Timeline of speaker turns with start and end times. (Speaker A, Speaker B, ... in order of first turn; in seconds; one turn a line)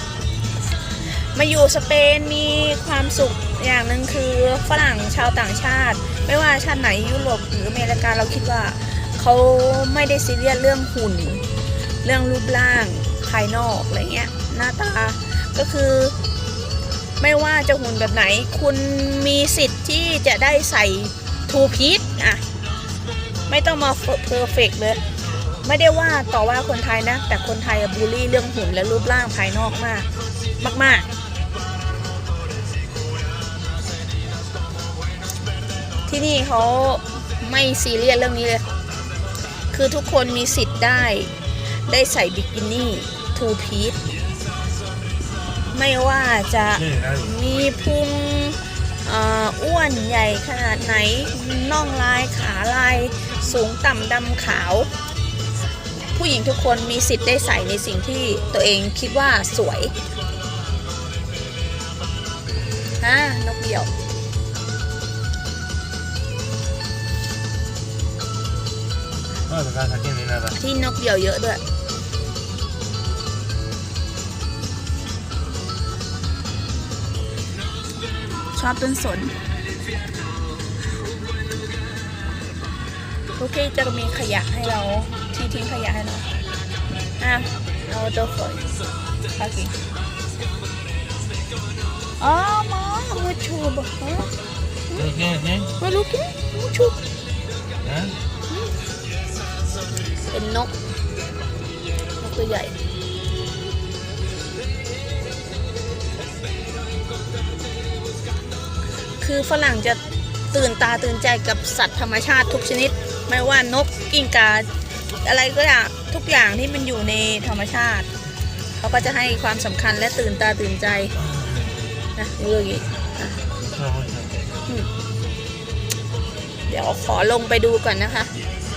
Speaker A: 1.0-11.4
Speaker A: 12.0-16.1
Speaker A: 17.2-22.4
Speaker A: 23.5-25.0
Speaker A: 25.6-30.1
Speaker A: 30.6-31.1
Speaker A: 36.1-38.6
Speaker A: 39.7-44.0
Speaker A: 45.7-54.9
Speaker B: 46.7-47.4
Speaker A: 56.0-59.9
Speaker A: 63.0-63.9
Speaker B: 69.5-70.6
Speaker A: 70.5-71.6
Speaker A: 78.5-79.3
Speaker A: 83.4-86.3
Speaker A: 87.2-88.7
Speaker A: 89.3-89.8
Speaker A: 92.2-94.3
Speaker B: 94.9-95.7
Speaker A: 95.8-97.0
Speaker B: 97.8-98.2
Speaker A: 100.3-100.7
Speaker A: 102.2-102.7
Speaker A: 109.2-110.0
Speaker A: 110.5-114.7
Speaker A: 115.2-118.1
Speaker A: 118.8-121.1
Speaker B: 121.2-121.7
Speaker A: 122.2-123.4
Speaker B: 123.6-124.4
Speaker A: 126.7-128.3